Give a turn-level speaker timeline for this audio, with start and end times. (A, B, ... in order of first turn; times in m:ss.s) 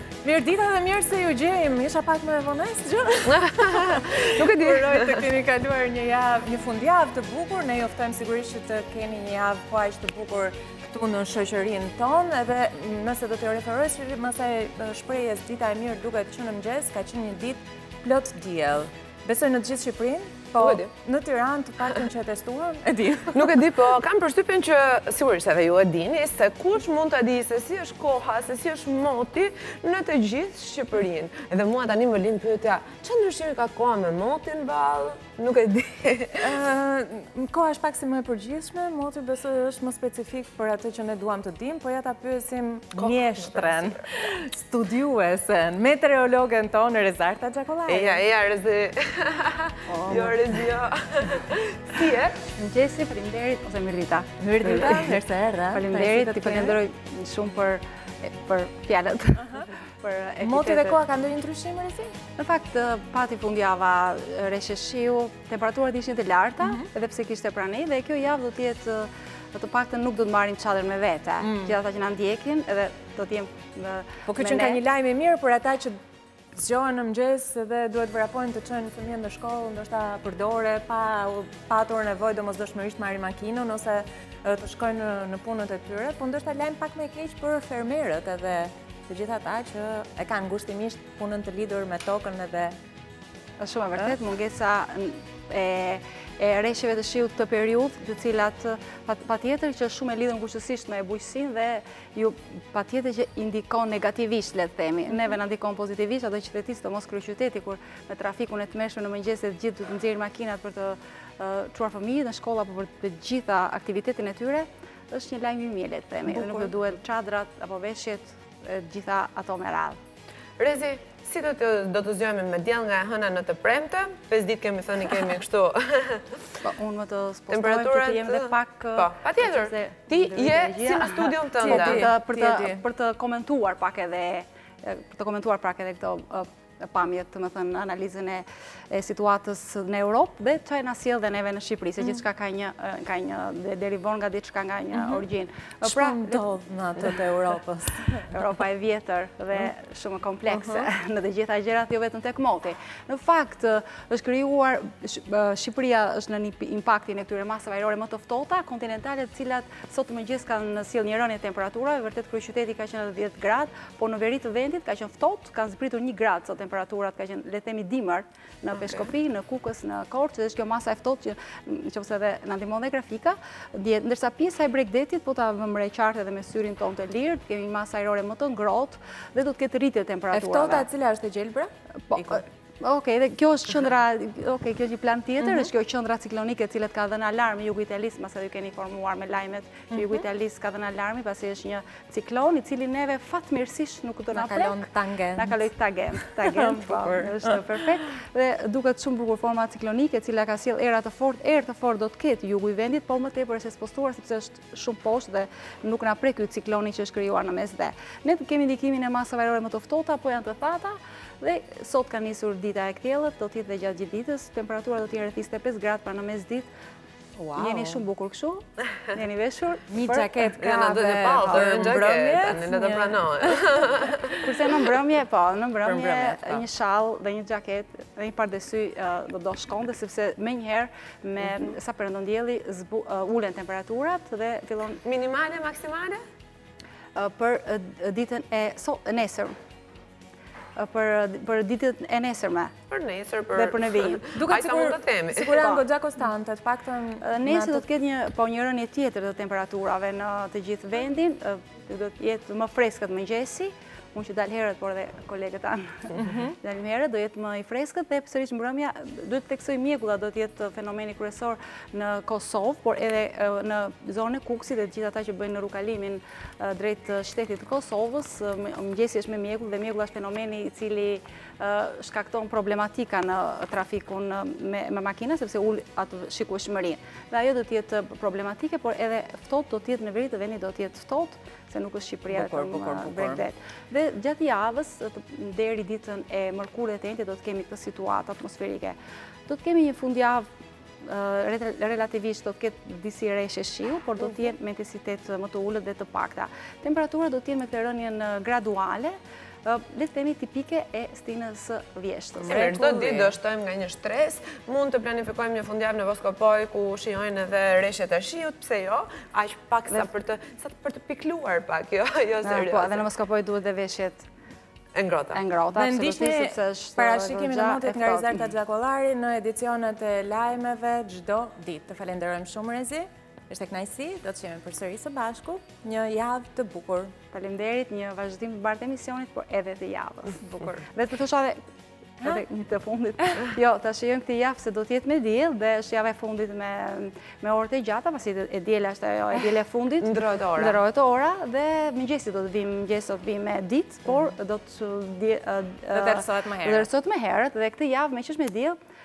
0:00.2-0:23.7 A
0:03.3-0:05.2 B
0:20.6-0:20.9 B
0:23.3-0:36.6 B
0:36.4-0:48.2 A
0:43.0-0:44.0 B
0:47.9-0:52.4 B
0:49.9-0:50.6 A
0:52.4-0:55.2 C
0:54.4-0:56.8 A
0:55.7-1:01.0 C
1:00.4-1:02.1 A
1:02.4-1:14.8 C
1:11.4-1:11.7 A
1:14.2-1:16.0 A
1:16.5-1:32.7 A
1:33.6-2:00.0 C
1:56.3-1:56.7 A
2:00.6-2:06.6 B
2:06.6-2:26.4 C
2:07.5-2:12.1 B
2:11.5-2:12.8 A
2:25.8-2:28.3 A
2:28.3-3:00.9 C
2:30.5-2:30.8 A
3:00.3-3:02.4 A
3:02.1-3:36.7 C
3:05.4-3:05.7 A
3:09.9-3:10.2 A
3:14.3-3:15.6 A
3:16.2-3:17.6 A
3:37.4-3:38.0 A
3:37.5-3:40.5 C
3:39.9-3:44.4 A
3:40.6-3:44.2 B
3:41.4-3:41.8 C
3:44.4-3:55.0 C
3:45.8-3:46.6 A
3:55.0-3:56.2 B
3:57.1-3:59.6 C
4:00.8-4:02.8 C
4:02.9-4:05.6 B
4:03.5-4:04.4 C
4:04.3-4:07.8 A
4:05.5-4:05.8 C
4:07.2-4:50.5 C
4:16.2-4:16.5 A
4:42.3-4:43.4 A
4:51.0-5:02.8 C
5:02.4-5:03.3 A
5:02.4-5:13.0 B
5:12.4-5:14.3 C
5:14.9-5:15.4 B
5:15.3-5:18.5 C
5:15.7-5:27.1 A
5:27.3-5:31.6 C
5:32.2-5:48.8 C
5:40.0-5:40.8 B
5:45.9-5:46.9 A